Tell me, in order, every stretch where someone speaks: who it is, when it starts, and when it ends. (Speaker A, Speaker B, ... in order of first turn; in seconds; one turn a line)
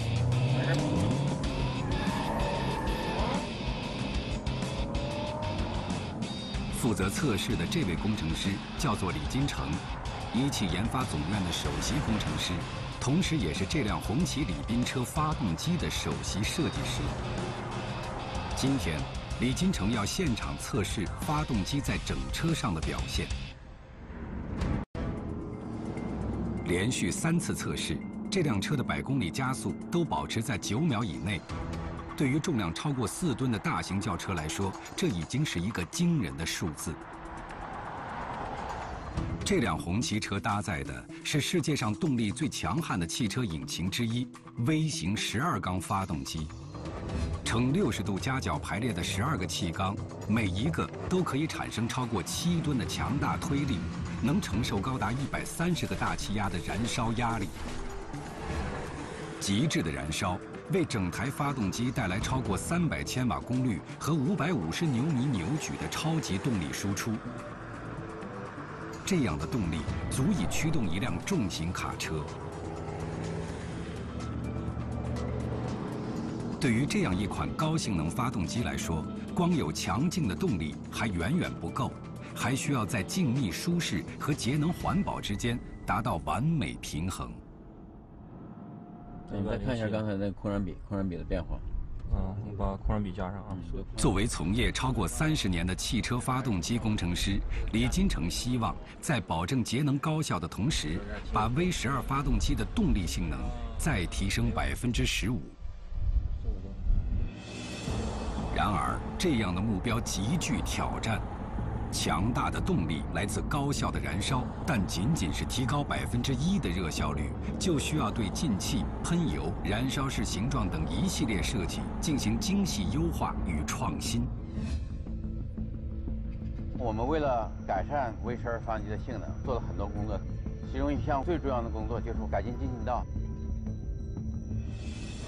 Speaker A: 6.7-17.1
Speaker A: 18.5-23.3
Speaker A: 26.6-31.4
Speaker A: 32.1-37.0
Speaker A: 39.4-46.5
Speaker A: 47.4-57.6
Speaker A: 59.4-67.2
Speaker A: 69.0-72.3
Speaker A: 76.6-87.4
Speaker B: 89.3-91.7
Speaker C: 89.3-90.0
Speaker C: 92.1-93.5
Speaker B: 93.5-93.9
Speaker A: 94.0-105.6
Speaker A: 108.5-111.2
Speaker A: 111.9-124.3
Speaker B: 126.8-133.1